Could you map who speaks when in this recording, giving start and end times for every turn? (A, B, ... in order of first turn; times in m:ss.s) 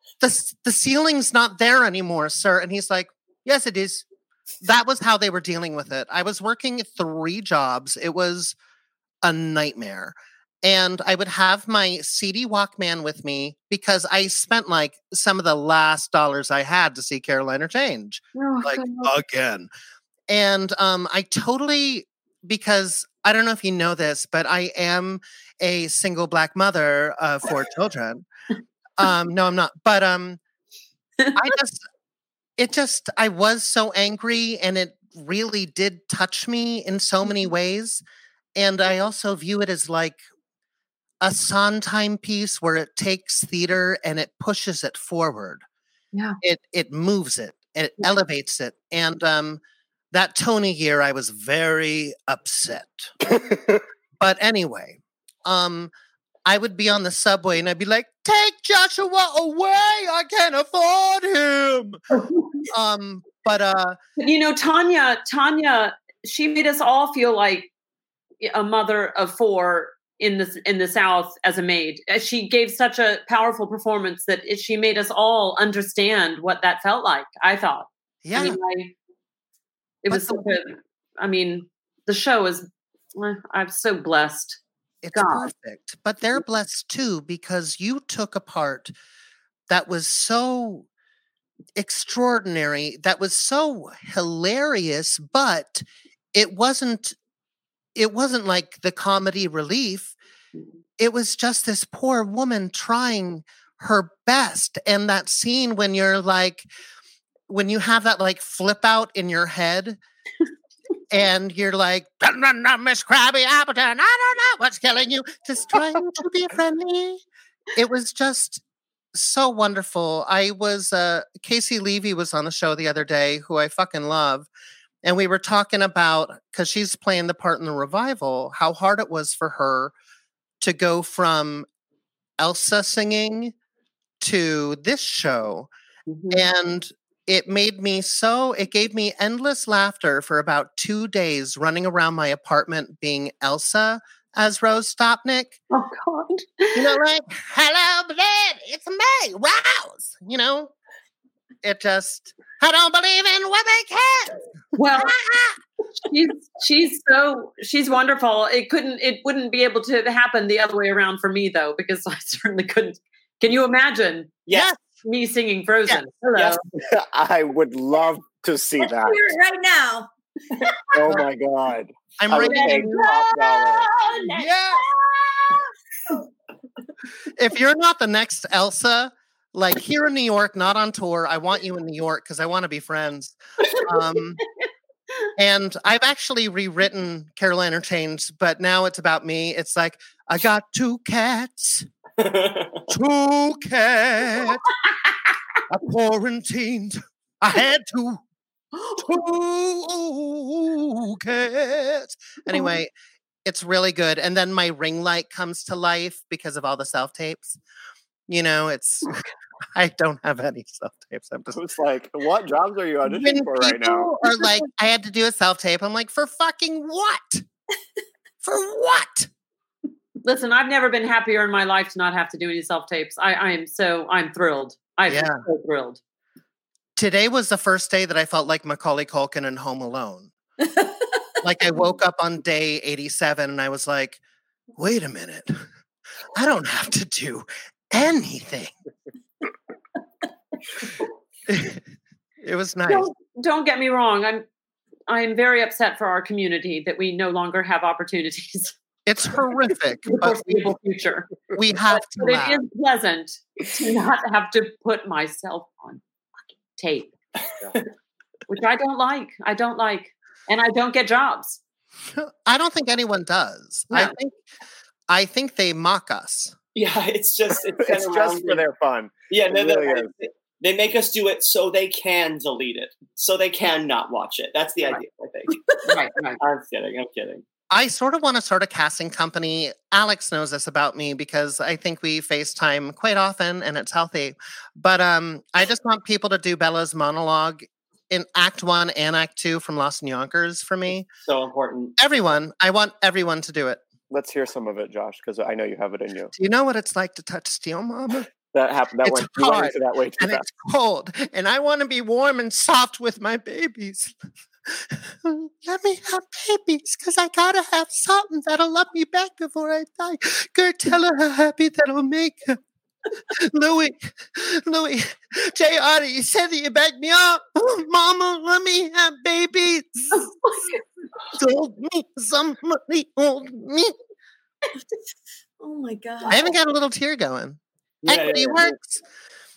0:00.2-0:04.0 A
0:04.6-0:08.6 A
0:09.2-0:19.7 A
0:18.3-0:19.1 B
0:20.3-0:28.2 A
0:29.0-0:30.4 A
0:31.3-0:31.8 A
0:32.6-0:38.0 A
0:38.6-0:40.2 A
0:41.2-0:45.6 A
0:46.4-0:49.6 A
0:50.1-0:53.3 A
0:54.2-0:55.9 A
0:56.4-1:02.0 A
1:02.7-1:04.0 A
1:04.2-1:07.7 B
1:08.4-1:18.9 B
1:18.2-1:18.6 A
1:20.0-1:24.6 B
1:20.1-1:20.4 A
1:25.0-1:28.9 A
1:25.1-1:25.5 B
1:29.7-1:30.9 A
1:31.7-1:37.2 A
1:38.0-1:40.1 A
1:41.0-1:46.7 A
1:47.5-1:50.0 A
1:51.1-1:57.2 A
1:57.7-1:58.6 A
1:59.1-2:04.5 A
2:05.0-2:09.9 A
2:10.6-2:11.7 A
2:12.4-2:13.5 A
2:14.2-2:15.7 A
2:16.1-2:16.4 B
2:16.3-2:25.6 A
2:25.7-2:26.9 B
2:26.7-2:30.7 A
2:31.6-2:34.4 A
2:34.7-2:35.2 B
2:34.9-2:35.6 A
2:36.0-2:44.4 B
2:44.5-2:44.8 A
2:45.0-2:46.6 B
2:46.7-2:49.3 C
2:48.8-2:50.1 D
2:50.9-2:53.9 C
2:52.2-2:53.3 A
2:52.4-2:55.5 B
2:54.3-2:54.8 A
2:57.3-3:04.4 A
3:05.4-3:11.9 A
3:12.2-3:12.9 E
3:12.9-3:14.6 A
3:15.7-3:18.2 A
3:19.0-3:22.9 A
3:23.4-3:27.6 A
3:28.3-3:29.2 A
3:29.7-3:31.6 A
3:31.5-3:34.1 C
3:33.0-3:37.4 A
3:38.4-3:39.3 A
3:40.2-3:46.0 B
3:45.1-3:45.4 A
3:47.0-3:50.3 A
3:51.4-3:54.2 A
3:54.8-3:55.6 A
3:56.3-3:58.7 A
4:01.5-4:01.8 A
4:02.4-4:03.1 A
4:02.9-4:04.4 B
4:05.1-4:08.7 B
4:09.0-4:10.7 A
4:10.1-4:11.3 B
4:11.5-4:12.6 A
4:11.9-4:16.0 B
4:16.7-4:17.1 B
4:18.5-4:21.6 B
4:22.1-4:24.4 A
4:25.1-4:26.5 A
4:26.7-4:28.6 E
4:27.7-4:30.1 C
4:29.3-4:35.6 E
4:35.9-4:36.4 B
4:36.4-4:37.4 E
4:37.7-4:51.1 A
4:51.2-4:52.0 E
4:52.0-4:53.8 A
4:54.1-4:56.3 C
4:56.4-4:58.3 A
4:58.5-5:00.4 C
4:59.0-5:12.6 A
5:13.3-5:20.3 A
5:21.3-5:23.9 A
5:25.6-5:26.6 D
5:26.3-5:29.0 A
5:28.0-5:28.8 E